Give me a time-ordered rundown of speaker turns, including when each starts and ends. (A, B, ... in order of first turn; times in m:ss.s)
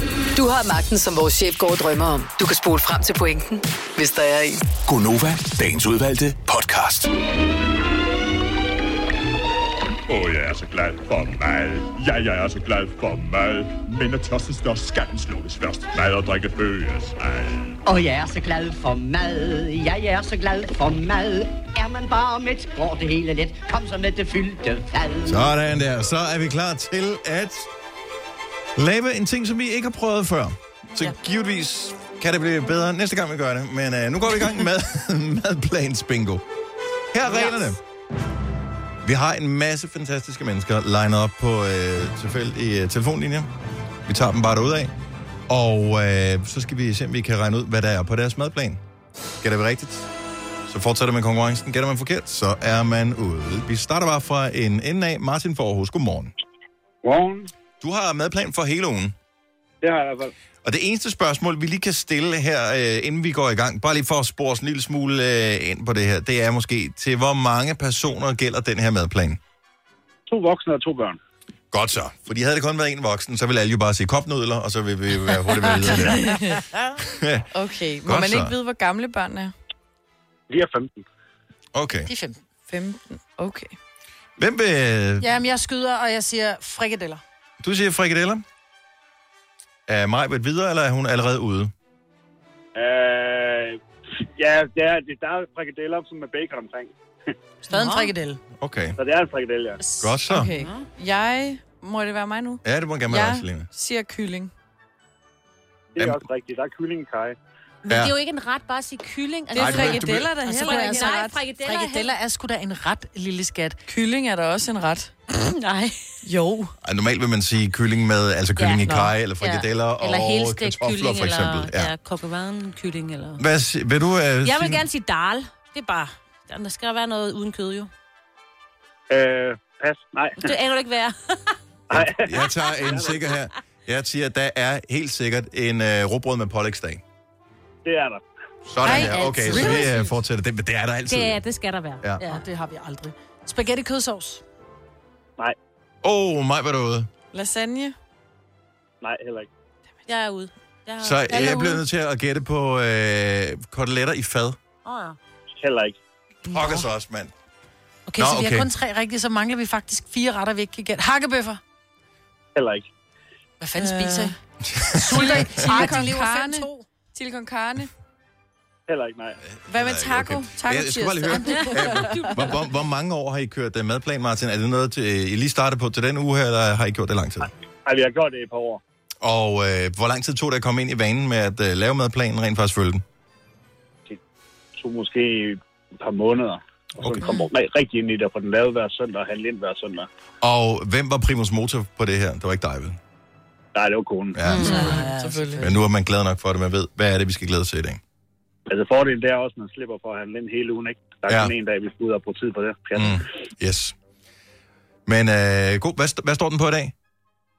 0:00.4-0:04.6 A
0:04.9-0:07.1 B
0:10.1-0:17.8 C
0:17.9-0:25.5 D
0:25.3-0:27.7 E
0:28.8-0:36.4 E
0:37.1-0:37.8 E
0:39.0-0:43.5 E
0:44.1-0:44.9 E
0:45.5-0:48.8 E
0:49.4-0:50.1 E
0:50.7-0:56.3 E
0:57.0-0:57.5 F
0:57.8-0:59.2 E
0:59.8-1:00.3 F
1:00.6-1:09.4 E
1:10.3-1:11.2 F
1:11.7-1:17.5 E
1:16.0-1:16.6 G
1:17.5-1:19.5 G
1:18.0-1:18.5 E
1:20.5-1:21.0 F
1:21.7-1:22.1 E
1:22.1-1:22.4 H
1:22.7-1:23.8 G
1:24.4-1:25.3 E
1:25.2-1:27.2 H
1:27.6-1:28.4 E
1:29.9-1:31.7 E
1:32.8-1:33.8 F
1:34.4-1:36.9 F
1:37.7-1:38.4 H
1:37.7-1:38.1 I
1:38.6-1:39.0 E
1:39.0-1:39.8 F
1:40.0-1:40.8 I
1:40.0-1:40.5 E
1:40.3-1:44.5 G
1:42.6-1:43.7 E
1:45.9-1:47.4 F
1:46.0-1:46.2 E
1:47.8-1:52.1 I
1:47.9-1:48.1 E
1:49.5-1:51.4 G
1:49.6-1:50.3 E
1:50.4-1:53.8 H
1:53.9-1:55.1 G
1:55.3-1:56.0 I
1:56.2-1:56.7 G
1:56.8-2:01.9 E
1:58.6-1:58.9 I
1:58.9-1:59.1 G
1:59.4-2:03.4 I
2:03.4-2:04.8 E
2:04.4-2:07.9 I
2:09.1-2:10.5 F
2:10.4-2:11.6 I
2:11.9-2:13.3 F
2:11.9-2:17.0 E
2:17.8-2:18.2 F
2:18.7-2:21.4 E
2:18.8-2:19.9 H
2:18.8-2:20.0 I
2:21.1-2:22.4 I
2:22.2-2:24.4 H
2:26.0-2:27.1 E
2:27.3-2:28.0 G
2:29.0-2:29.5 F
2:30.1-2:31.8 I
2:31.0-2:34.6 E
2:34.8-2:35.2 I
2:35.6-2:36.0 F
2:36.5-2:37.3 E
2:38.1-2:41.6 H
2:38.2-2:38.7 E
2:42.6-2:42.8 F
2:43.6-2:44.4 H
2:43.8-2:44.4 G
2:44.6-2:45.9 E
2:44.9-2:46.9 H
2:45.1-2:47.9 G
2:48.9-2:49.4 F
2:49.4-2:57.5 E
2:49.7-2:52.0 G
2:51.6-2:52.1 H
2:51.9-2:52.6 I
2:57.8-2:58.8 F
2:59.2-3:03.0 E
3:04.8-3:10.1 F
3:07.0-3:07.3 E
3:10.4-3:13.0 E
3:13.8-3:14.5 F
3:14.4-3:15.0 E
3:14.4-3:15.1 I
3:14.6-3:15.7 G
3:14.6-3:15.8 H
3:15.6-3:18.0 E
3:18.7-3:23.2 F
3:21.3-3:21.5 E
3:23.0-3:24.0 E
3:25.1-3:26.9 E